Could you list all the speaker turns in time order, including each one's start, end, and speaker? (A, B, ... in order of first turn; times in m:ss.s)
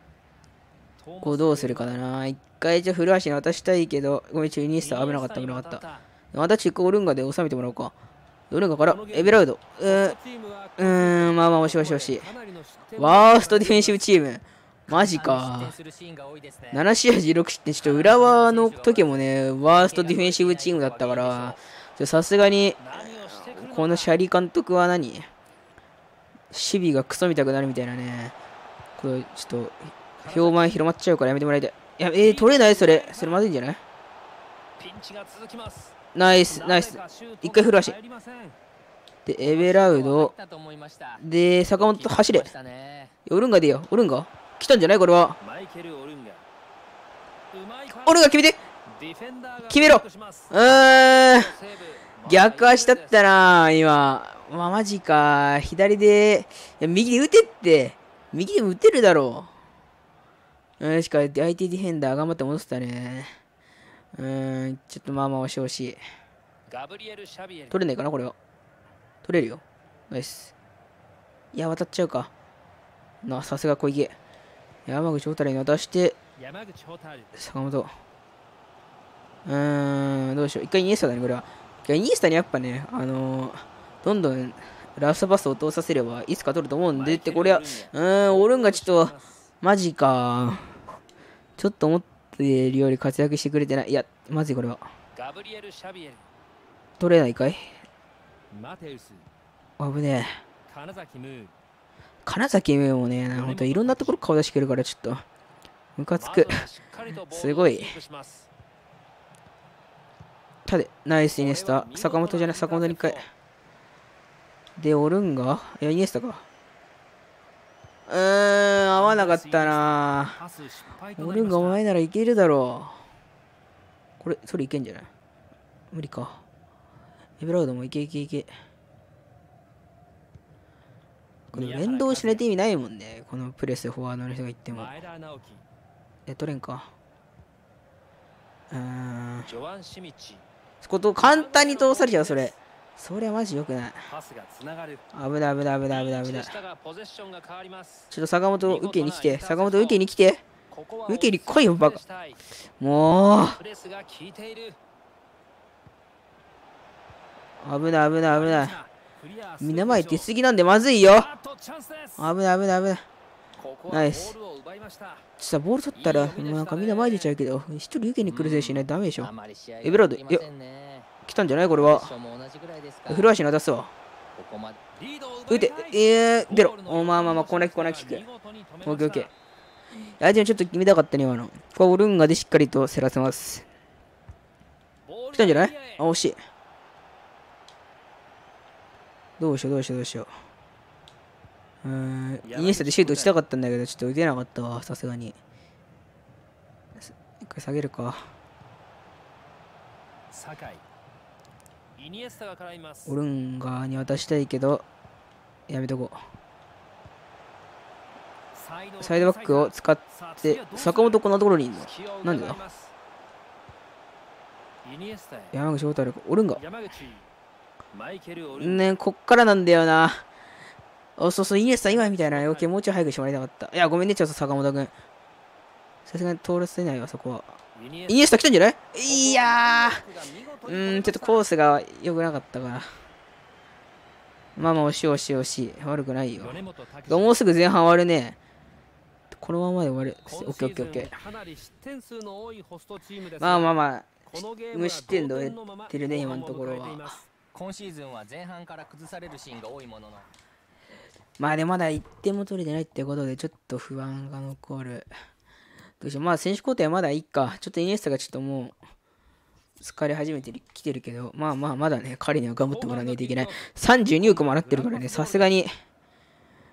0:01.0-0:02.0 A
0:01.2-0:07.9 B
0:04.8-0:06.0 A
0:08.5-0:10.2 B
0:08.8-0:14.0 A
0:10.8-0:12.3 B
0:13.0-0:15.8 B
0:14.9-0:16.8 C
0:16.7-0:25.3 B
0:17.8-0:21.6 C
0:22.8-0:24.1 A
0:26.5-0:28.4 B
0:29.0-0:33.8 B
0:30.2-0:30.8 A
0:32.2-0:33.4 A
0:34.8-0:35.9 A
0:36.1-0:38.0 B
0:36.5-0:38.6 A
0:39.2-0:40.3 B
0:39.4-0:41.2 C
0:41.2-0:42.5 B
0:41.8-0:43.1 C
0:43.3-0:45.4 B
0:45.4-0:46.4 A
0:47.5-0:48.2 A
0:47.9-0:48.6 B
0:48.9-0:50.6 A
0:49.7-0:51.6 B
0:51.2-0:53.2 A
0:52.2-0:59.5 B
1:00.8-1:03.3 B
1:04.2-1:06.0 B
1:06.7-1:07.8 A
1:07.7-1:08.4 B
1:09.2-1:10.6 B
1:11.5-1:12.3 B
1:13.2-1:14.2 B
1:14.9-1:16.2 B
1:16.4-1:17.3 A
1:17.3-1:17.9 B
1:19.5-1:30.8 B
1:26.9-1:29.4 A
1:31.6-1:34.8 B
1:35.2-1:36.2 A
1:37.0-1:37.8 B
1:38.5-1:39.3 A
1:39.8-1:40.4 B
1:40.7-1:41.5 A
1:42.2-1:45.2 B
1:43.3-1:44.2 A
1:46.0-1:46.6 B
1:46.2-1:48.5 A
1:47.3-1:48.0 B
1:50.7-1:53.2 B
1:51.4-1:53.2 A
1:54.8-1:56.4 B
1:58.1-2:00.4 B
1:58.9-2:01.8 A
2:01.2-2:03.0 B
2:04.2-2:05.1 B
2:05.9-2:06.4 B
2:07.4-2:08.5 B
2:11.5-2:12.5 A
2:11.5-2:15.0 B
2:14.7-2:15.6 A
2:16.3-2:16.9 B
2:18.7-2:19.5 B
2:19.5-2:20.4 A
2:20.8-2:24.1 B
2:21.2-2:22.6 A
2:24.1-2:25.0 A
2:25.1-2:26.6 B
2:25.9-2:28.1 A
2:28.1-2:30.4 B
2:28.6-2:30.0 A
2:30.7-2:32.4 A
2:31.1-2:32.0 B
2:32.8-2:33.6 B
2:33.6-2:34.8 A
2:37.6-2:38.8 B
2:38.2-2:40.3 A
2:39.6-2:41.3 B
2:41.1-2:42.3 A
2:42.2-2:43.0 B
2:43.6-2:45.2 A
2:43.9-2:44.4 B
2:45.4-2:49.3 B
2:46.0-2:47.3 A
2:48.2-2:51.1 C
2:49.8-2:50.5 B
2:51.2-2:52.1 B
2:51.7-2:53.3 C
2:53.1-2:53.9 B
2:54.4-2:54.8 C
2:55.0-2:59.3 A
2:55.5-2:58.2 B
2:58.8-2:59.3 B
3:00.2-3:03.7 B
3:05.1-3:06.0 A
3:05.3-3:06.4 B
3:09.4-3:10.3 B
3:11.8-3:15.4 B
3:12.4-3:13.4 A
3:17.0-3:18.3 B
3:20.3-3:20.8 A
3:22.0-3:23.1 A
3:23.1-3:24.9 B
3:25.7-3:26.2 B
3:28.6-3:31.2 A
3:29.0-3:32.6 B
3:31.8-3:32.9 A
3:34.8-3:35.5 A
3:35.5-3:36.6 B
3:36.6-3:37.3 A
3:37.9-3:38.9 A
3:38.5-3:40.3 B
3:41.2-3:44.9 B
3:41.8-3:42.7 A
3:46.1-3:47.6 B
3:47.8-3:48.3 A
3:48.1-3:50.0 B
3:49.0-3:51.5 A
3:50.7-3:52.9 B
3:54.6-3:58.4 B
3:56.4-3:57.3 A
3:59.3-4:01.1 B
4:00.3-4:03.7 A
4:03.4-4:07.2 B
4:04.3-4:07.2 A
4:07.5-4:10.3 C
4:11.4-4:15.1 B
4:16.0-4:18.8 B
4:19.8-4:25.7 B
4:22.6-4:23.6 A
4:24.2-4:25.5 A